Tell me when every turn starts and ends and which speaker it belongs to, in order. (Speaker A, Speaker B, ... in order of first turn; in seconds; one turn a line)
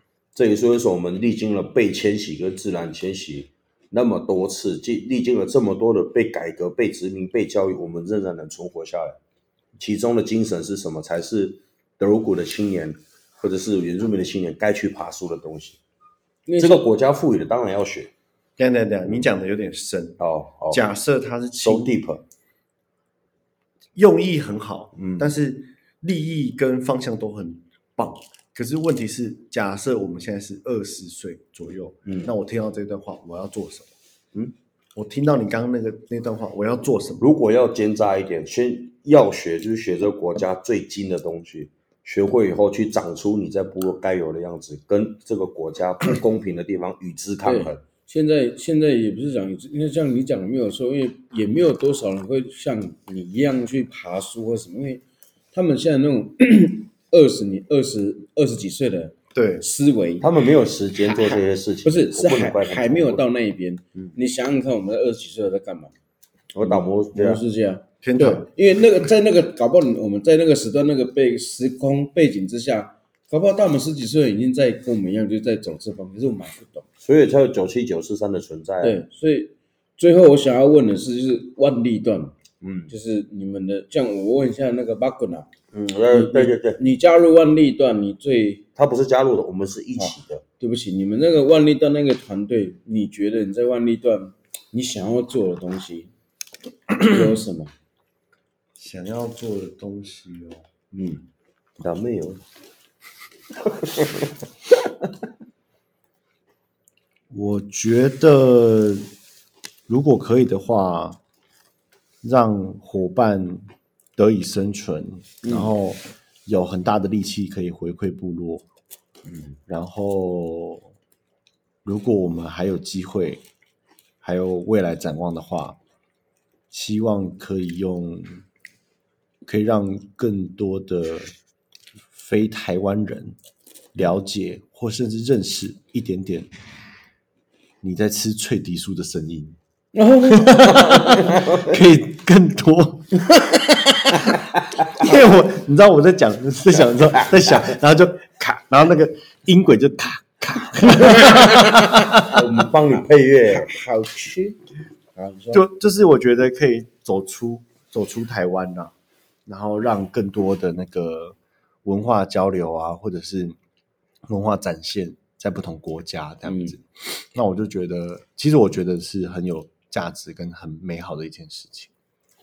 Speaker A: 0.3-9.2
Speaker A: 9.8-15.8
Speaker B: 16.5-16.8
Speaker A: 16.6-18.1
Speaker C: 18.6-21.9
Speaker A: 20.2-20.8
Speaker A: 21.6-22.2
Speaker C: 23.9-33.9
Speaker A: 25.0-25.3
Speaker A: 32.0-32.3
Speaker C: 35.0-37.3
Speaker A: 37.2-47.8
Speaker B: 47.4-60.3
Speaker C: 59.3-59.7
Speaker A: 60.2-63.2
Speaker B: 61.0-65.9
Speaker A: 66.5-67.4
Speaker B: 66.6-76.8
Speaker C: 68.0-68.5
Speaker A: 77.0-79.0
Speaker B: 78.8-82.3
Speaker A: 82.6-82.9
Speaker B: 82.9-85.5
Speaker A: 85.7-86.8
Speaker B: 86.1-88.6
Speaker A: 88.8-90.4
Speaker B: 90.0-96.1
Speaker B: 96.9-97.7
Speaker C: 98.8-100.7
Speaker B: 100.9-101.2
Speaker A: 101.8-102.4
Speaker A: 103.8-104.3
Speaker C: 107.3-109.1
Speaker C: 109.9-111.2
Speaker C: 112.2-118.7
Speaker A: 119.3-119.6
Speaker C: 119.7-120.9
Speaker C: 121.8-123.4
Speaker C: 124.2-125.8
Speaker C: 126.7-128.4
Speaker C: 129.4-131.3
Speaker C: 132.1-133.4
Speaker C: 133.9-136.5
Speaker C: 137.8-139.6
Speaker B: 139.9-141.2
Speaker C: 140.3-144.2
Speaker A: 140.9-141.8
Speaker C: 144.8-152.2
Speaker A: 146.7-147.8
Speaker B: 151.2-152.4
Speaker A: 152.2-153.7
Speaker B: 153.5-155.7
Speaker C: 155.5-158.9
Speaker C: 159.5-163.6
Speaker C: 164.3-171.9
Speaker B: 166.4-166.8